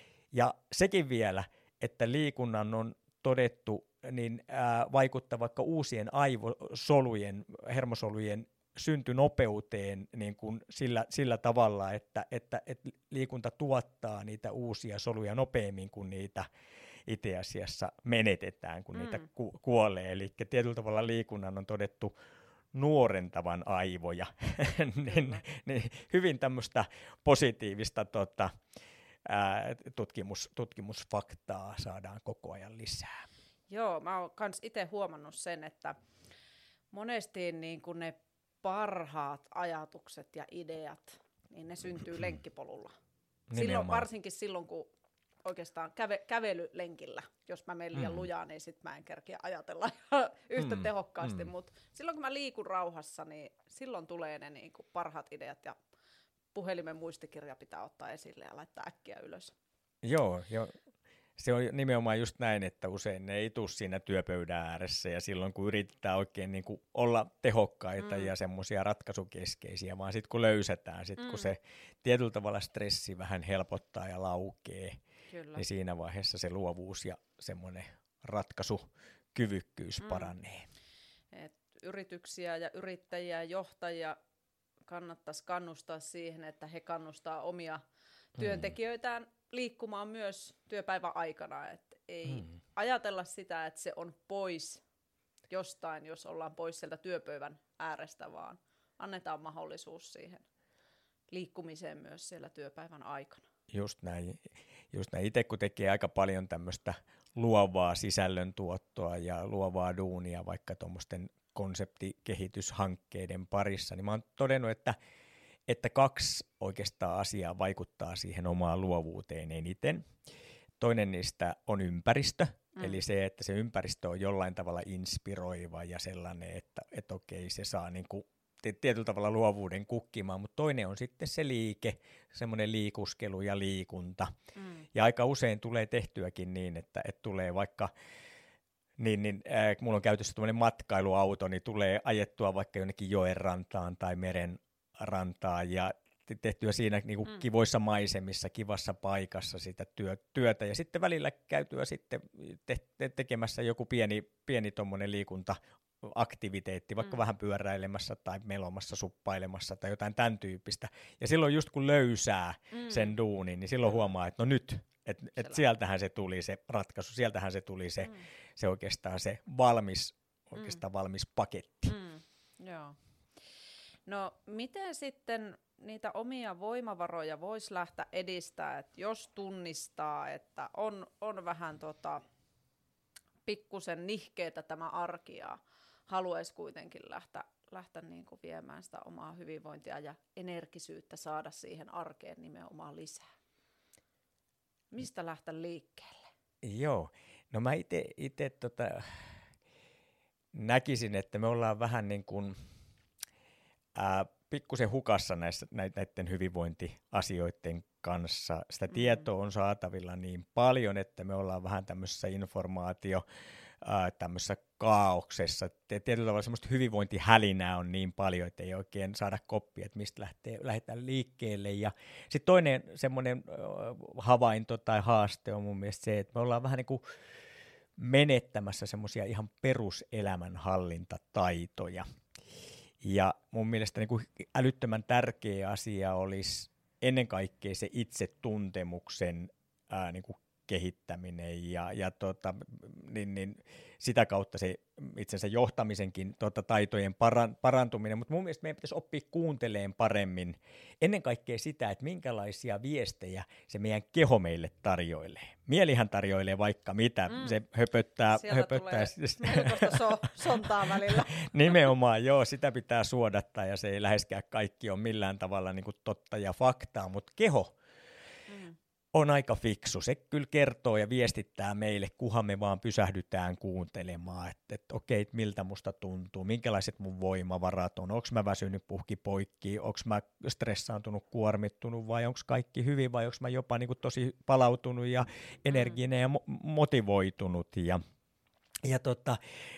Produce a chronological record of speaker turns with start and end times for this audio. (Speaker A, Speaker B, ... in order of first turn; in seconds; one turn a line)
Speaker A: 0.3-16.5
Speaker A: 17.1-22.1
Speaker B: 18.9-19.2
Speaker A: 22.7-28.5
Speaker B: 25.1-25.4
Speaker A: 29.2-33.2
Speaker B: 33.7-36.0
Speaker B: 36.9-42.9
Speaker A: 43.5-44.1
Speaker B: 43.5-44.9
Speaker B: 45.4-55.8
Speaker A: 47.9-48.3
Speaker A: 50.6-51.5
Speaker B: 56.5-59.5
Speaker A: 60.0-60.8
Speaker A: 61.4-75.0
Speaker B: 68.0-68.3
Speaker B: 71.2-71.5
Speaker B: 75.3-75.6
Speaker A: 75.5-80.7
Speaker B: 80.0-80.3
Speaker B: 81.3-84.2
Speaker B: 84.9-87.8
Speaker B: 88.3-94.8
Speaker A: 88.4-88.7
Speaker B: 95.5-100.4
Speaker B: 101.3-103.5
Speaker A: 103.7-115.0
Speaker A: 115.7-120.1
Speaker A: 120.8-134.3
Speaker B: 134.6-134.9
Speaker A: 134.9-137.9
Speaker A: 139.0-171.9
Speaker B: 162.7-163.2
Speaker B: 171.9-173.0
Speaker B: 174.1-182.2
Speaker B: 183.4-193.3
Speaker B: 194.9-196.3
Speaker A: 196.6-199.3
Speaker A: 200.5-202.6
Speaker A: 203.9-213.2
Speaker A: 213.8-227.0
Speaker A: 228.0-232.1
Speaker A: 233.0-267.8
Speaker B: 257.3-257.6
Speaker B: 258.3-261.9
Speaker B: 268.5-268.8
Speaker A: 269.1-288.0
Speaker A: 288.8-289.4